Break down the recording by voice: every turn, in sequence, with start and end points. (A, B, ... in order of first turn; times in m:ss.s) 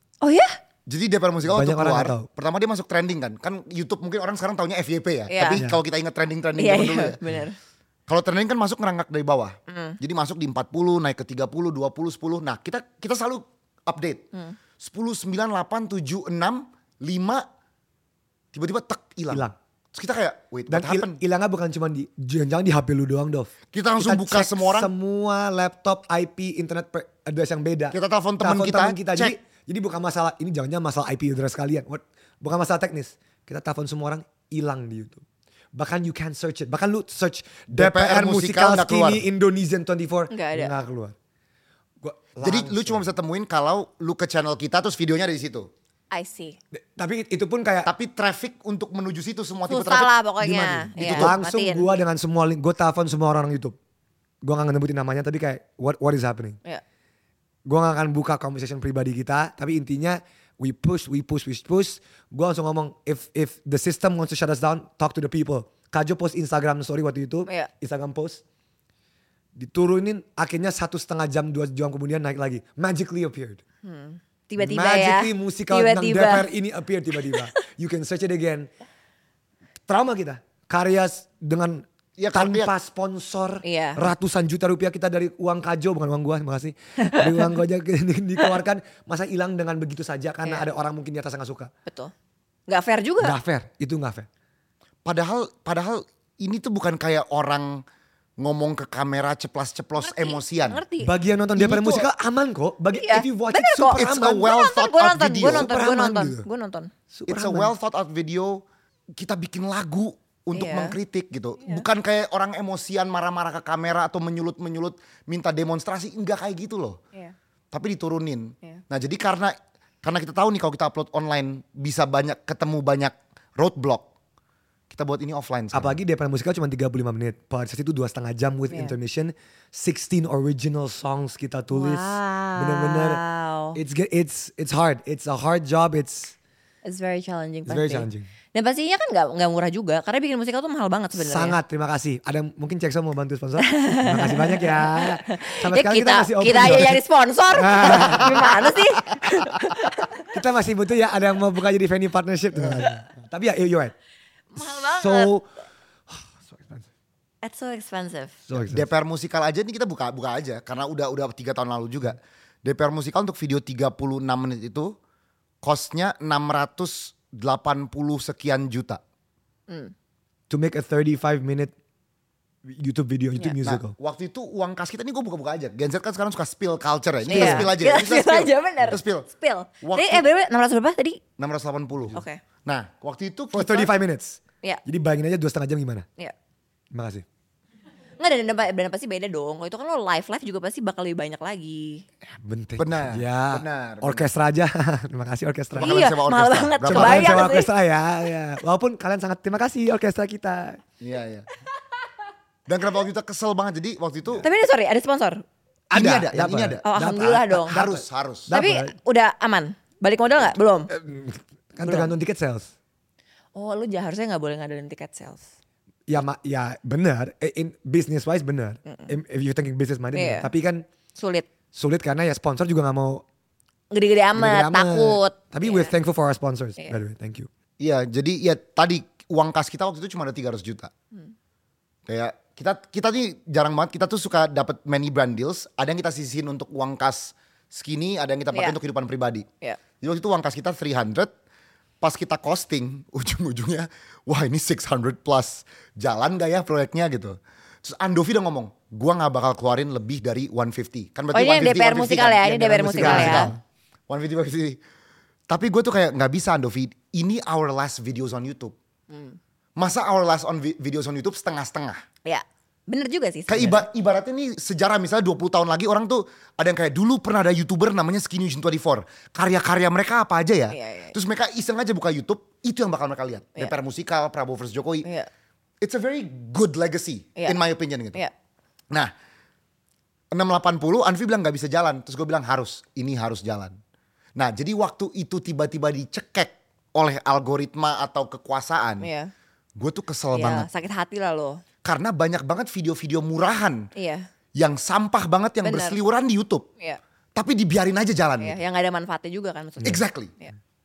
0:00.2-0:00.6 A
0:00.9-0:07.2 B
0:01.5-0:02.3 C
0:05.3-0:05.6 A
0:05.5-0:05.8 C
0:06.6-0:07.6 A
0:08.1-0:14.2 B
0:09.7-0:10.0 A
0:14.8-0:17.4 B
0:18.5-0:21.2 B
0:19.3-0:19.5 C
0:20.7-0:35.2 C
0:23.7-0:24.9 B
0:27.9-0:29.4 B
0:35.7-0:41.1 C
0:37.7-0:39.2 B
0:40.3-0:40.7 A
0:42.0-0:43.1 C
0:42.4-0:45.7 B
0:46.1-0:46.6 A
0:46.7-0:47.9 C
0:47.8-0:51.4 B
0:49.7-0:51.9 A
0:50.4-0:53.7 C
0:54.4-0:56.6 C
0:57.7-1:08.4 C
1:09.6-1:13.6 C
1:13.8-1:16.5 A
1:14.6-1:18.7 C
1:19.9-1:31.7 C
1:22.2-1:22.7 B
1:23.6-1:24.0 A
1:27.0-1:27.5 A
1:31.9-1:32.1 A
1:32.7-1:33.4 A
1:33.2-1:34.3 C
1:35.0-1:37.8 B
1:38.4-1:40.8 B
1:40.0-1:41.1 A
1:41.0-1:44.5 C
1:41.6-1:42.1 B
1:42.9-1:46.9 A
1:43.9-1:45.7 B
1:45.4-1:46.4 C
1:47.1-1:47.7 C
1:47.3-1:48.6 B
1:49.2-1:57.0 B
1:50.5-1:51.0 A
1:57.7-2:04.1 B
2:04.9-2:06.0 B
2:05.7-2:13.2 C
2:11.7-2:13.8 A
2:13.7-2:16.3 C
2:16.8-2:21.6 A
2:17.7-2:18.3 C
2:21.1-2:27.0 C
2:23.6-2:30.1 A
2:27.5-2:28.7 C
2:28.0-2:28.4 B
2:30.3-2:33.9 C
2:34.6-2:35.3 A
2:34.6-2:35.5 C
2:36.1-2:36.9 C
2:37.4-2:38.4 A
2:38.5-2:38.9 C
2:38.5-2:44.9 B
2:45.6-2:49.0 B
2:50.5-2:51.7 C
2:52.6-2:53.9 C
2:53.6-2:59.3 B
2:57.3-2:57.7 C
2:57.3-3:01.2 A
2:59.8-3:00.2 B
3:01.4-3:03.9 B
3:02.1-3:02.4 A
3:03.5-3:06.1 C
3:06.9-3:07.2 C
3:08.2-3:12.0 A
3:12.3-3:16.0 C
3:12.8-3:14.3 B
3:15.7-3:17.6 B
3:15.8-3:17.7 A
3:16.9-3:20.8 C
3:21.0-3:21.5 B
3:22.7-3:24.5 B
3:24.4-3:25.4 A
3:25.9-3:28.9 C
3:25.9-3:26.8 B
3:26.8-3:27.8 A
3:27.6-3:28.5 B
3:28.5-3:30.9 A
3:30.9-3:32.7 C
3:31.8-3:32.1 A
3:33.5-3:35.4 A
3:36.1-3:40.8 C
3:40.1-3:40.5 A
3:41.2-3:41.5 A
3:41.7-3:43.2 C
3:43.9-3:45.9 A
3:44.3-3:47.5 C
3:47.8-3:50.9 B
3:52.1-3:59.5 B
4:00.0-4:01.3 B
4:02.0-4:13.6 B
4:11.3-4:13.5 A
4:12.5-4:13.6 C
4:14.1-4:14.8 B
4:15.5-4:18.7 B
4:19.1-4:19.4 A
4:19.8-4:22.0 B
4:22.2-4:23.8 A
4:23.5-4:35.1 B
4:30.7-4:31.1 A
4:35.0-4:35.3 A
4:35.8-4:38.2 B
4:40.3-4:43.7 B
4:44.4-4:49.1 B
4:49.0-4:49.3 A
4:49.8-4:50.7 B
4:50.3-4:51.6 A
4:51.8-4:53.9 B
4:54.0-4:54.2 A
4:54.6-4:56.6 B
4:55.6-4:56.0 A
4:57.4-4:58.6 B
4:58.4-5:00.5 A
4:59.8-5:00.3 B